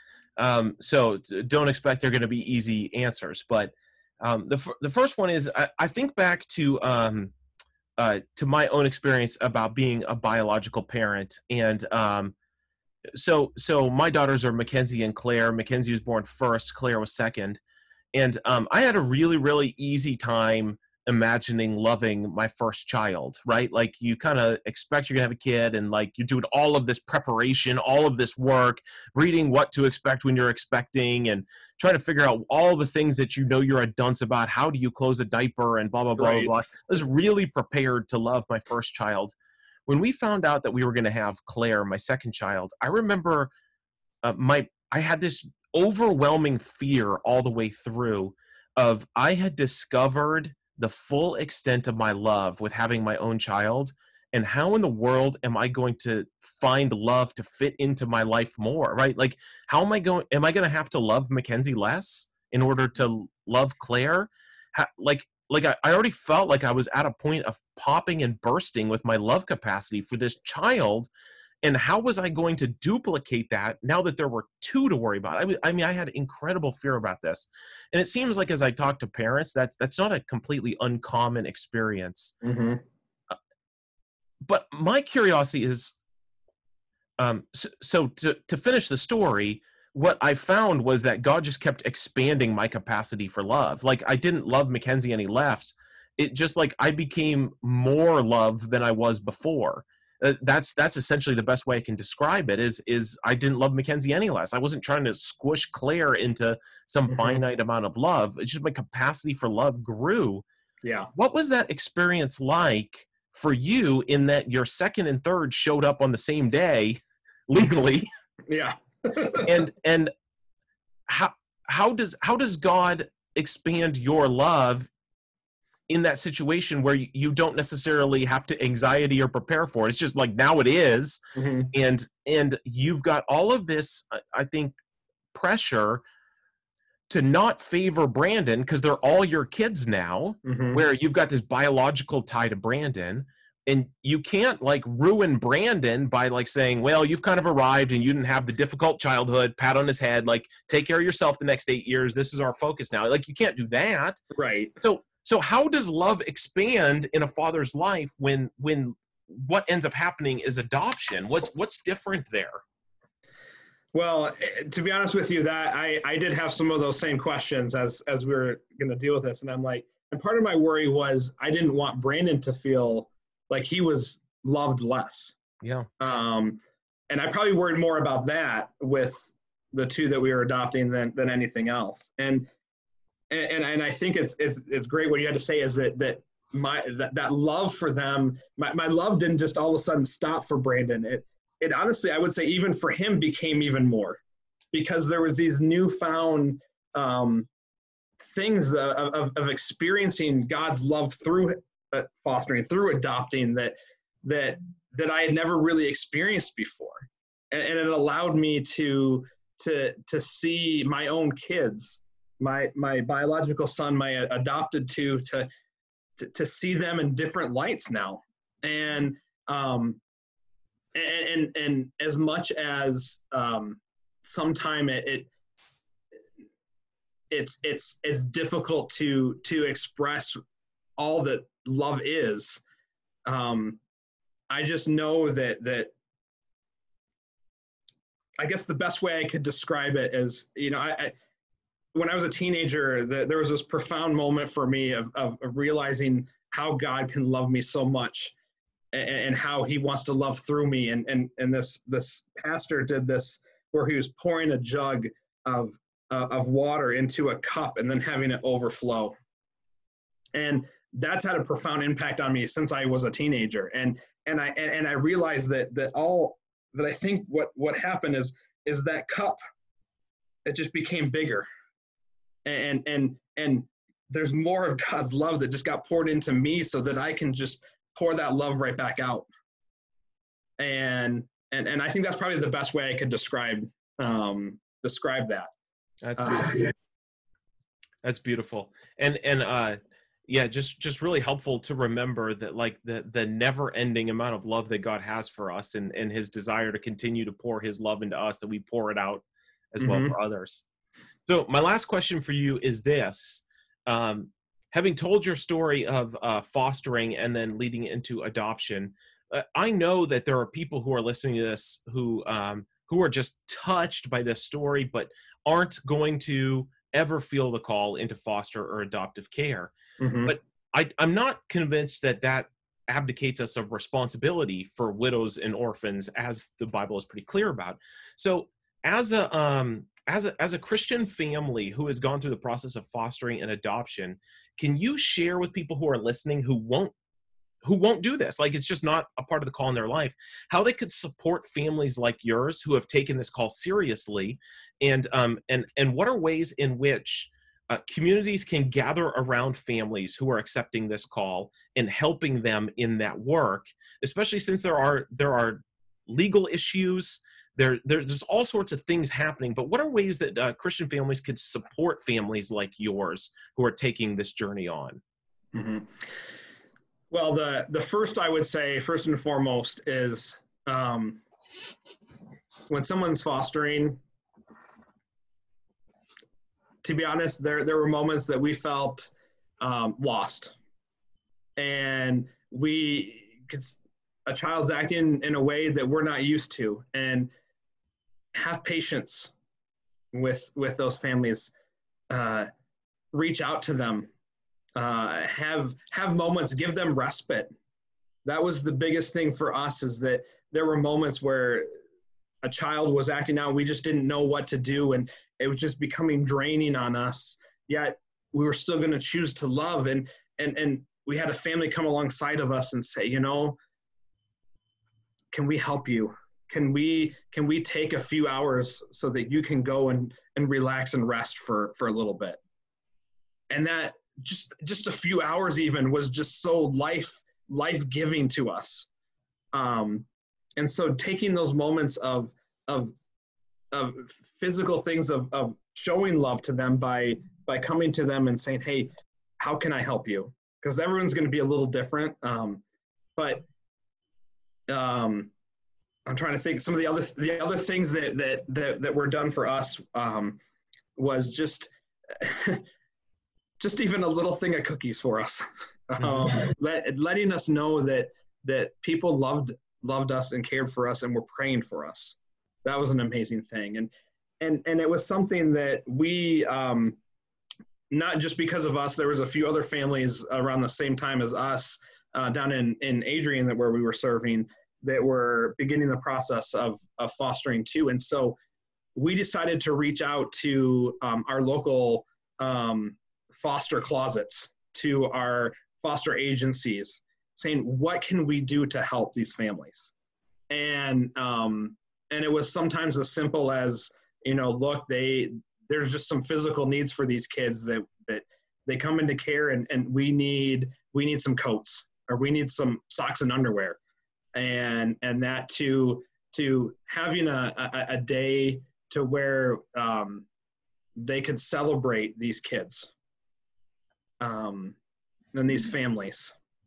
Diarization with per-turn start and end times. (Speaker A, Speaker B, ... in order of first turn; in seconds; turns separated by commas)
Speaker A: 0.4-7.3, Speaker A: 8.0-12.3, Speaker A: 13.1-17.6, Speaker A: 18.1-39.3, Speaker B: 36.2-36.5, Speaker A: 39.9-43.5, Speaker A: 44.2-71.1, Speaker A: 71.6-82.3, Speaker B: 82.4-82.8, Speaker A: 84.4-86.0, Speaker A: 87.2-110.4, Speaker B: 107.1-107.4, Speaker B: 110.8-111.1, Speaker A: 111.1-118.1, Speaker B: 118.5-119.6, Speaker A: 119.4-120.1, Speaker A: 121.1-124.9, Speaker A: 125.9-131.2, Speaker B: 131.3-131.7, Speaker A: 131.7-134.7, Speaker A: 135.3-136.0, Speaker A: 137.1-154.2, Speaker B: 140.4-140.8, Speaker B: 154.3-154.8, Speaker A: 154.8-162.6, Speaker B: 163.9-175.4, Speaker A: 175.6-175.9, Speaker B: 176.0-182.5, Speaker B: 183.3-194.2, Speaker B: 194.7-197.5, Speaker B: 198.2-215.5, Speaker B: 216.2-220.0, Speaker B: 220.9-225.3, Speaker B: 227.3-230.4, Speaker B: 231.0-232.6, Speaker B: 233.2-233.8, Speaker B: 234.5-235.9, Speaker B: 238.4-241.1, Speaker B: 241.9-248.3, Speaker B: 248.9-259.1, Speaker B: 260.3-269.4, Speaker B: 270.4-271.5, Speaker B: 272.4-279.3, Speaker B: 280.6-285.5, Speaker A: 286.0-286.6, Speaker B: 286.2-286.6, Speaker A: 288.0-300.6, Speaker B: 299.8-300.1, Speaker A: 301.2-319.7, Speaker B: 320.0-320.3, Speaker A: 320.2-336.9, Speaker A: 337.6-365.0, Speaker B: 365.5-366.1, Speaker B: 367.1-371.2, Speaker B: 372.7-374.0, Speaker B: 376.8-380.6, Speaker B: 381.6-387.3, Speaker B: 388.3-389.3, Speaker B: 390.1-391.5, Speaker B: 392.1-392.5, Speaker B: 393.1-394.1, Speaker B: 394.8-397.5, Speaker B: 398.2-401.7, Speaker B: 402.4-413.6, Speaker B: 415.3-422.4, Speaker B: 423.5-428.9, Speaker B: 429.5-432.9, Speaker B: 433.7-442.6, Speaker B: 443.1-443.4, Speaker B: 444.7-445.3, Speaker B: 446.1-450.4, Speaker B: 450.9-452.6, Speaker B: 453.6-467.0, Speaker B: 467.9-478.4, Speaker B: 478.9-489.9, Speaker B: 490.5-503.8, Speaker B: 504.3-510.2, Speaker B: 510.9-512.9, Speaker B: 514.2-514.8, Speaker B: 515.3-516.3